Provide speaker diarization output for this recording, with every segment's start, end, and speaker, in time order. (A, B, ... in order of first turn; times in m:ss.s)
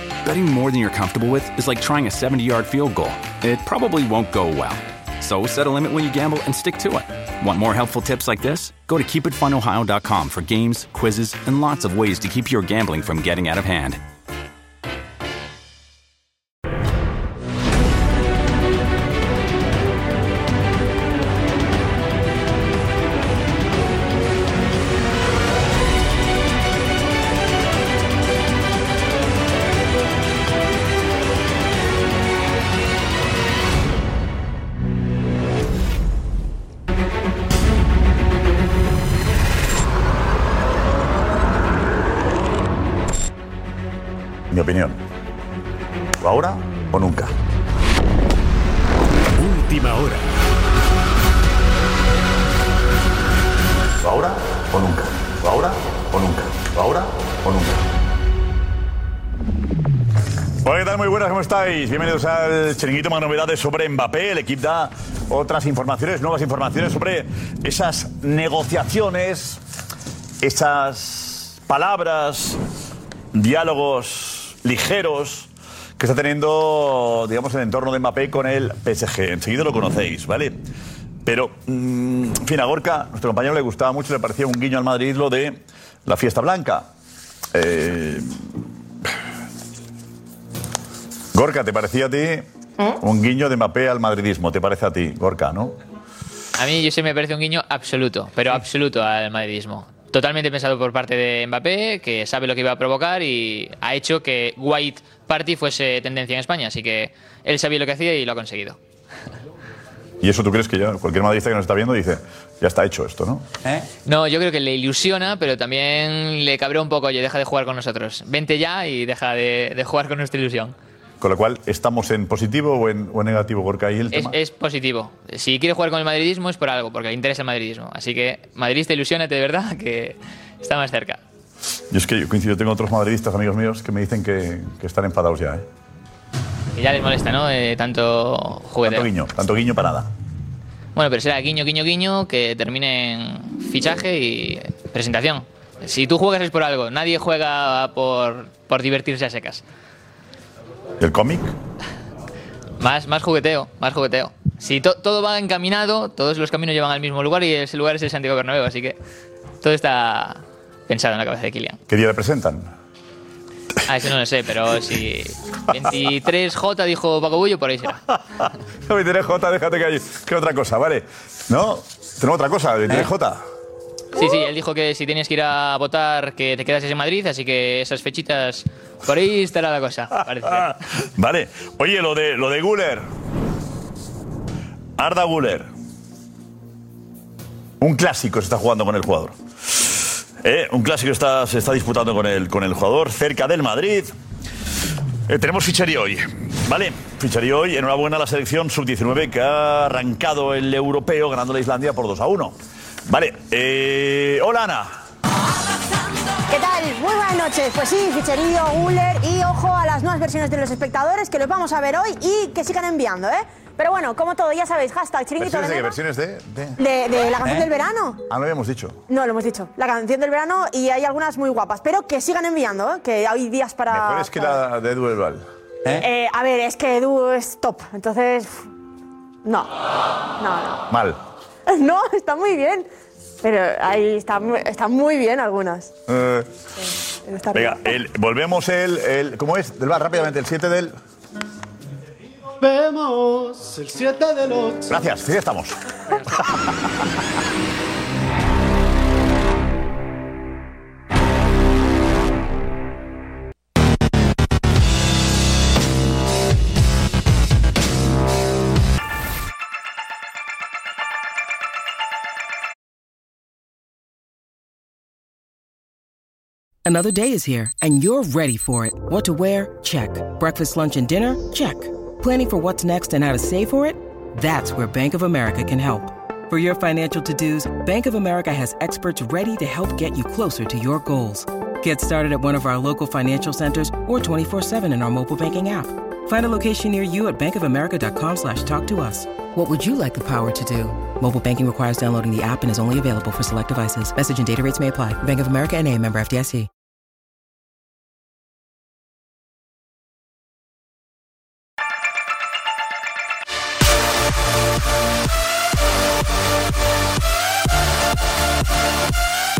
0:00.2-0:14.0 A
0:44.5-0:45.0 B
0:46.2-0:47.3 B
0:54.0-0:57.8 B
1:00.6-1:09.6 B
1:10.4-1:12.6 B
1:13.3-1:20.6 B
1:21.2-1:26.9 B
1:27.5-1:28.4 B
1:31.3-1:32.4 B
1:33.0-1:35.8 B
1:36.6-1:48.8 C
1:50.2-1:53.5 B
1:54.0-2:00.7 C
2:01.2-2:04.4 B
2:04.1-2:11.2 C
2:11.9-2:15.6 B
2:16.8-2:19.1 C
2:18.8-2:20.1 B
2:20.9-2:29.6 C
2:31.0-2:31.5 B
2:32.8-2:39.0 C
2:39.6-2:41.8 C
2:41.9-2:42.7 B
2:43.8-2:48.0 C
2:48.1-2:53.4 B
2:54.1-3:00.7 C
3:00.4-3:03.0 B
3:05.0-3:05.7 B
3:07.8-3:14.1 B
3:15.3-3:25.0 B
3:26.5-3:36.0 D
3:35.4-3:36.8 B
3:36.8-3:38.2 D
3:38.3-3:39.0 B
3:39.1-3:44.6 D
3:43.9-3:46.0 B
3:45.9-3:48.6 D
3:49.4-3:49.7 D
3:50.4-3:50.9 D
3:50.9-3:51.2 B
3:51.7-3:52.9 D
3:53.4-3:55.9 D
3:56.1-3:56.5 B
3:56.8-3:57.9 D
3:57.5-4:01.0 B
4:02.6-4:05.0 E
4:04.9-4:05.7 B
4:06.3-4:06.7 B
4:26.8-4:56.7 F